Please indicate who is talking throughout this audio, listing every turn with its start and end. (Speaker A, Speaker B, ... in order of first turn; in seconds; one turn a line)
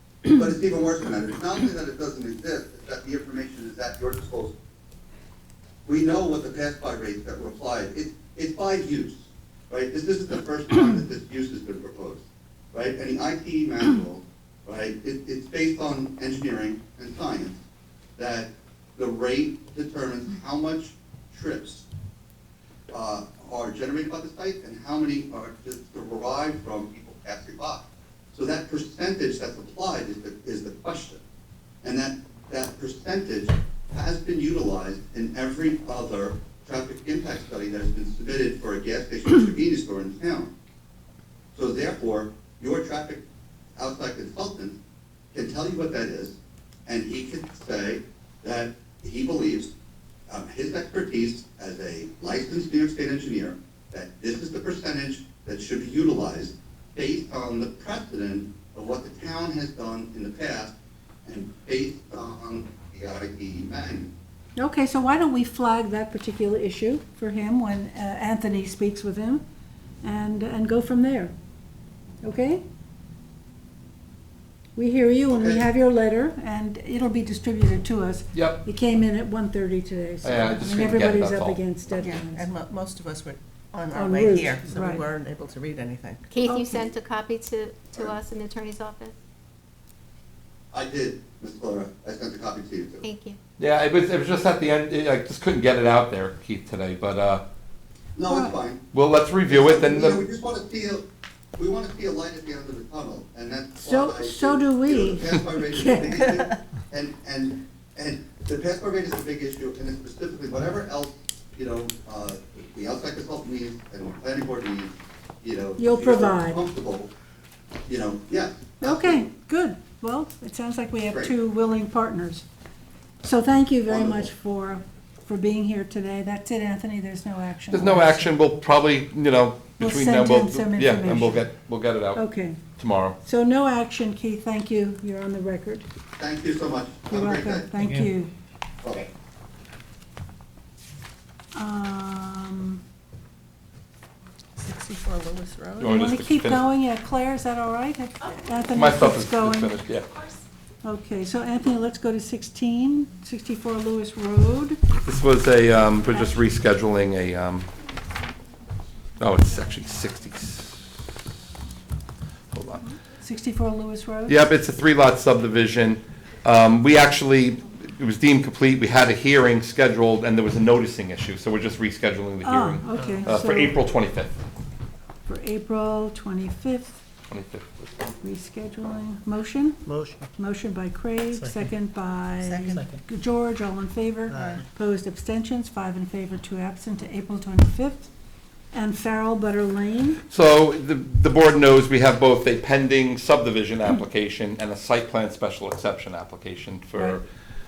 Speaker A: 0.2-4.5
Speaker A: 5.9-17.6
Speaker A: 18.2-21.9
Speaker A: 22.9-31.2
Speaker A: 31.8-40.5
Speaker A: 41.5-43.2
Speaker A: 43.8-44.8
Speaker A: 45.3-49.7
Speaker A: 50.3-60.7
Speaker A: 61.2-64.1
Speaker B: 64.5-69.4
Speaker B: 70.0-71.3
Speaker B: 72.2-72.6
Speaker B: 74.8-82.5
Speaker A: 75.3-75.7
Speaker C: 78.3-78.6
Speaker C: 80.2-81.6
Speaker D: 82.0-86.5
Speaker B: 83.9-85.0
Speaker E: 86.3-89.1
Speaker B: 86.4-86.9
Speaker A: 90.7-93.0
Speaker E: 93.0-93.4
Speaker C: 93.6-97.4
Speaker A: 98.1-98.8
Speaker B: 98.3-98.5
Speaker C: 98.9-100.2
Speaker A: 99.5-101.0
Speaker A: 101.5-117.1
Speaker B: 103.8-106.2
Speaker B: 115.8-116.6
Speaker A: 117.9-119.3
Speaker B: 118.8-122.4
Speaker B: 123.2-128.3
Speaker A: 123.9-124.3
Speaker C: 127.7-132.2
Speaker B: 129.8-131.4
Speaker B: 132.1-132.6
Speaker C: 132.8-133.2
Speaker B: 133.2-135.8
Speaker A: 136.2-137.7
Speaker B: 137.1-138.3
Speaker F: 137.8-138.1
Speaker A: 138.8-139.1
Speaker B: 141.5-142.8
Speaker D: 144.6-146.0
Speaker C: 145.8-146.7
Speaker B: 145.8-149.7
Speaker C: 148.7-150.1
Speaker B: 150.8-154.8
Speaker C: 155.0-157.7
Speaker C: 159.2-160.8
Speaker C: 162.5-162.8
Speaker B: 163.2-164.4
Speaker C: 164.3-174.3
Speaker B: 172.4-173.8
Speaker F: 172.9-173.3
Speaker B: 175.2-177.0
Speaker C: 177.3-178.1
Speaker B: 178.2-179.8
Speaker F: 179.8-180.3
Speaker B: 180.3-188.1
Speaker F: 181.3-181.7
Speaker D: 182.4-182.8
Speaker F: 182.8-183.0
Speaker F: 184.3-184.6
Speaker B: 188.7-190.2
Speaker C: 190.3-197.2